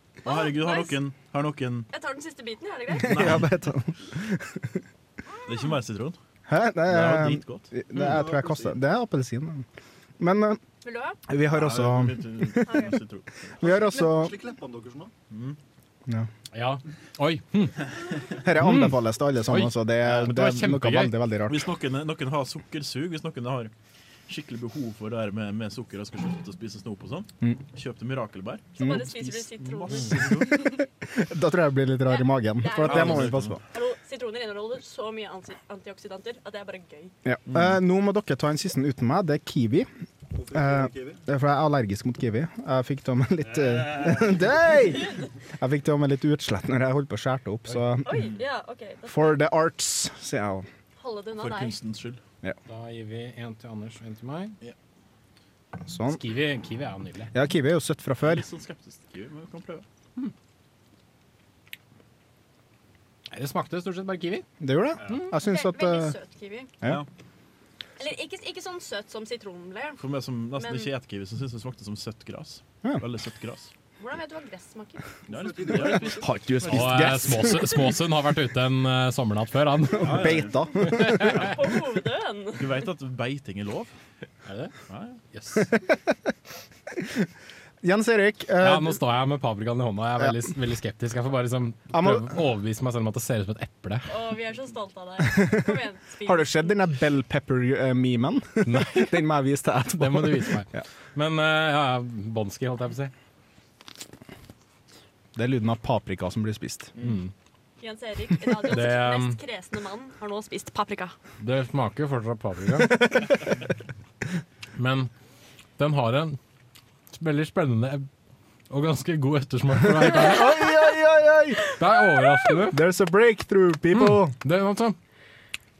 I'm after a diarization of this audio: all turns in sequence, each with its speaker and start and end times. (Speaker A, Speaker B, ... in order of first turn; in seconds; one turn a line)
Speaker A: 0.2-1.0
Speaker B: 0.2-1.9
Speaker A: 1.9-3.2
Speaker B: 3.0-3.5
Speaker C: 3.0-4.8
Speaker B: 5.5-6.2
Speaker C: 6.5-9.7
Speaker B: 6.9-8.2
Speaker D: 8.0-8.7
Speaker C: 10.2-10.6
Speaker A: 10.8-11.2
Speaker C: 11.3-12.9
Speaker B: 11.5-13.5
Speaker A: 12.7-12.9
Speaker C: 13.6-14.3
Speaker D: 13.6-15.1
Speaker B: 15.3-15.6
Speaker E: 16.5-17.8
Speaker C: 18.4-21.7
Speaker E: 18.6-19.0
Speaker E: 19.5-21.1
Speaker B: 21.5-23.7
Speaker B: 24.3-30.7
Speaker A: 28.8-30.8
Speaker C: 31.1-33.6
Speaker A: 32.1-37.1
Speaker B: 32.8-33.6
Speaker C: 37.2-39.9
Speaker D: 40.3-41.2
Speaker C: 40.5-48.3
Speaker A: 48.0-49.4
Speaker C: 49.0-50.7
Speaker A: 51.0-51.8
Speaker B: 51.4-52.2
Speaker E: 52.7-54.6
Speaker C: 55.8-56.2
Speaker E: 56.0-57.3
Speaker C: 57.3-58.4
Speaker B: 58.2-59.8
Speaker E: 63.3-64.5
Speaker C: 64.6-66.1
Speaker A: 65.2-66.7
Speaker A: 68.0-70.0
Speaker B: 70.0-73.7
Speaker A: 70.5-70.9
Speaker A: 74.0-75.1
Speaker B: 75.3-76.3
Speaker D: 75.3-76.3
Speaker C: 76.2-77.8
Speaker E: 76.6-81.3
Speaker C: 79.9-81.4
Speaker B: 80.0-80.5
Speaker B: 81.3-82.0
Speaker A: 81.4-82.6
Speaker B: 82.5-83.9
Speaker E: 84.4-84.7
Speaker B: 84.9-85.2
Speaker E: 85.3-85.7
Speaker C: 87.0-87.2
Speaker C: 87.8-89.0
Speaker E: 88.6-94.1
Speaker C: 90.2-90.5
Speaker C: 91.9-92.3
Speaker A: 94.1-96.6
Speaker C: 95.3-100.8
Speaker E: 98.7-99.2
Speaker E: 100.0-103.1
Speaker C: 105.3-106.9
Speaker E: 107.0-107.3
Speaker A: 107.8-111.1
Speaker E: 108.6-109.4
Speaker E: 111.4-113.5
Speaker C: 112.8-113.4
Speaker E: 114.8-115.1
Speaker E: 115.8-116.4
Speaker E: 117.1-118.1
Speaker E: 118.7-120.7
Speaker C: 119.8-121.7
Speaker E: 121.7-122.8
Speaker C: 122.7-124.3
Speaker E: 123.9-125.0